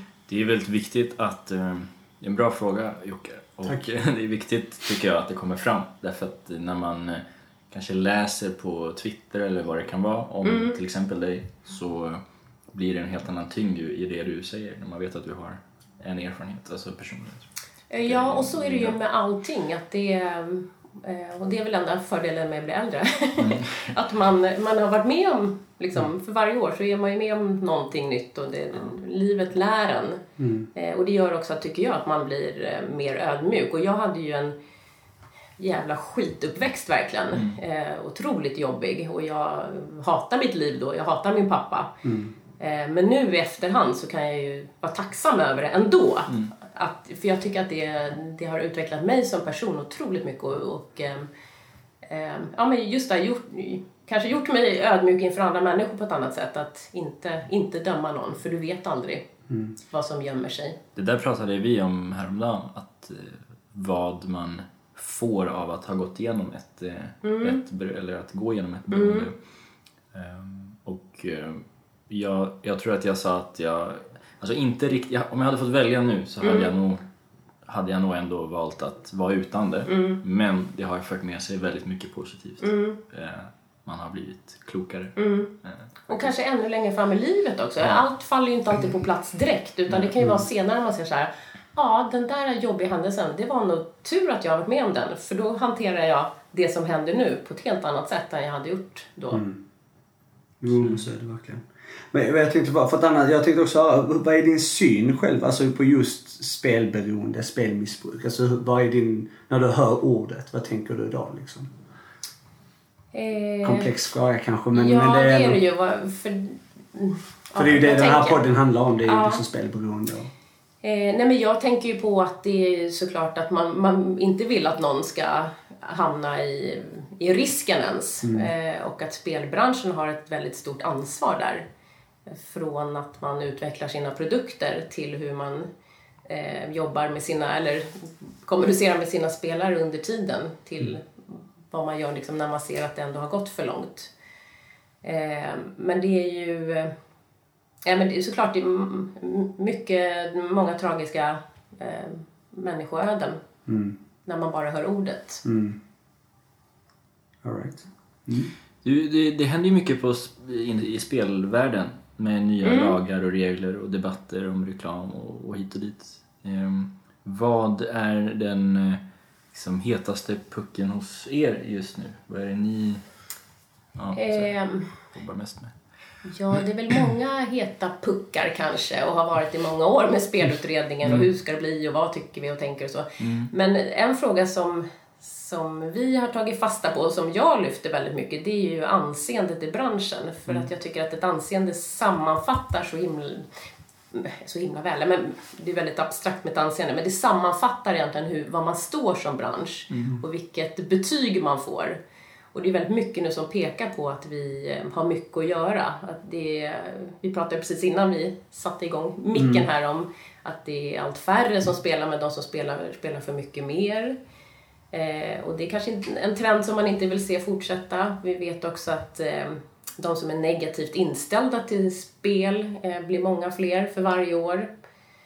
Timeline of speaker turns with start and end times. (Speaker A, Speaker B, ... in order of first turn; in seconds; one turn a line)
Speaker A: 0.3-12.2
Speaker B: 10.4-10.8
Speaker A: 12.7-17.5
Speaker B: 17.9-30.2
Speaker A: 18.0-19.0
Speaker A: 23.4-23.9
Speaker C: 30.4-30.7
Speaker B: 30.7-34.5
Speaker B: 35.6-41.9
Speaker C: 42.0-42.3
Speaker B: 42.6-51.3
Speaker B: 52.0-59.2
Speaker C: 59.5-59.7
Speaker B: 59.9-60.8
Speaker A: 61.0-69.3
Speaker B: 67.2-67.6
Speaker B: 68.9-69.3
Speaker A: 70.1-77.0
Speaker B: 76.4-76.7
Speaker A: 77.7-86.3
Speaker B: 79.9-80.2
Speaker B: 82.6-83.0
Speaker B: 85.2-85.5
Speaker B: 86.1-99.4
Speaker C: 99.3-99.6
Speaker C: 100.6-111.7
Speaker A: 100.8-101.0
Speaker B: 113.1-113.9
Speaker C: 113.6-115.6
Speaker B: 114.7-118.4
Speaker C: 117.5-120.3
Speaker B: 119.0-119.4
Speaker B: 120.8-131.6
Speaker C: 128.2-128.5
Speaker B: 132.3-135.7
Speaker B: 136.2-144.1
Speaker B: 145.0-146.9
Speaker B: 147.8-153.4
Speaker C: 153.7-154.0
Speaker B: 154.2-155.4
Speaker C: 155.4-155.8
Speaker C: 157.4-158.5
Speaker A: 158.8-173.0
Speaker B: 162.6-162.9
Speaker A: 173.9-175.7
Speaker B: 174.1-174.9
Speaker B: 176.2-193.5
Speaker A: 183.2-183.5
Speaker B: 194.1-202.0
Speaker B: 202.5-214.2
Speaker C: 209.3-209.7
Speaker B: 214.9-224.7